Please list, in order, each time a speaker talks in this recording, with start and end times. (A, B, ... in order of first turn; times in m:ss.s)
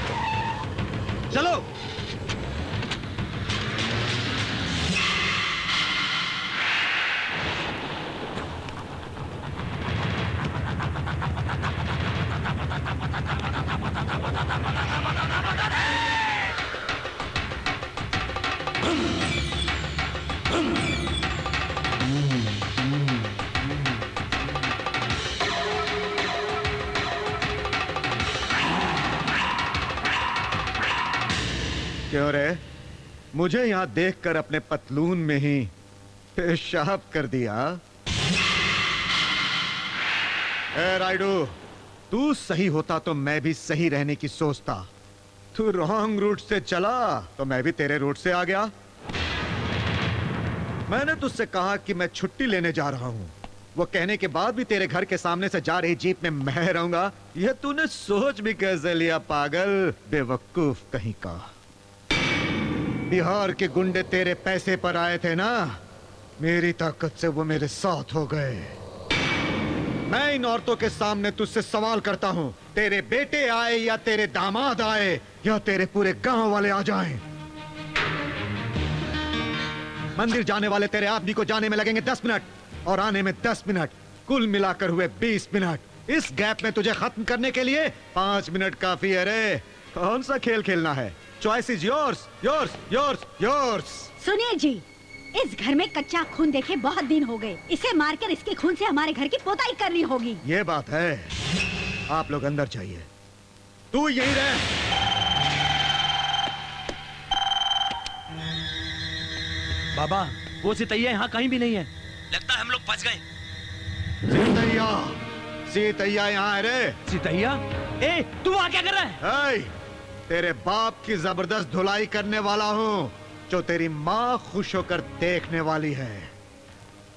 0:01.3-0:01.6 A
0:32.1-0:32.6 B
0:33.3-0:35.7 B
0:36.4-0:37.8 B
0:40.7-0:41.6 B
0:42.1-0:44.9 B
0:45.5-0:48.7 B
0:50.9-1:01.5 B
1:03.1-1:05.8 B
1:06.4-1:08.8 B
1:10.1-1:17.2 B
1:20.2-1:34.1 B
1:34.2-1:34.8 C
1:35.4-1:40.4 C
1:40.4-1:41.3 B
1:42.1-1:43.1 B
1:43.9-1:44.7 B
1:49.9-1:53.2 A
1:54.3-1:57.0 B
1:57.1-1:59.2 A
1:59.2-1:59.7 B
2:00.3-2:06.3 B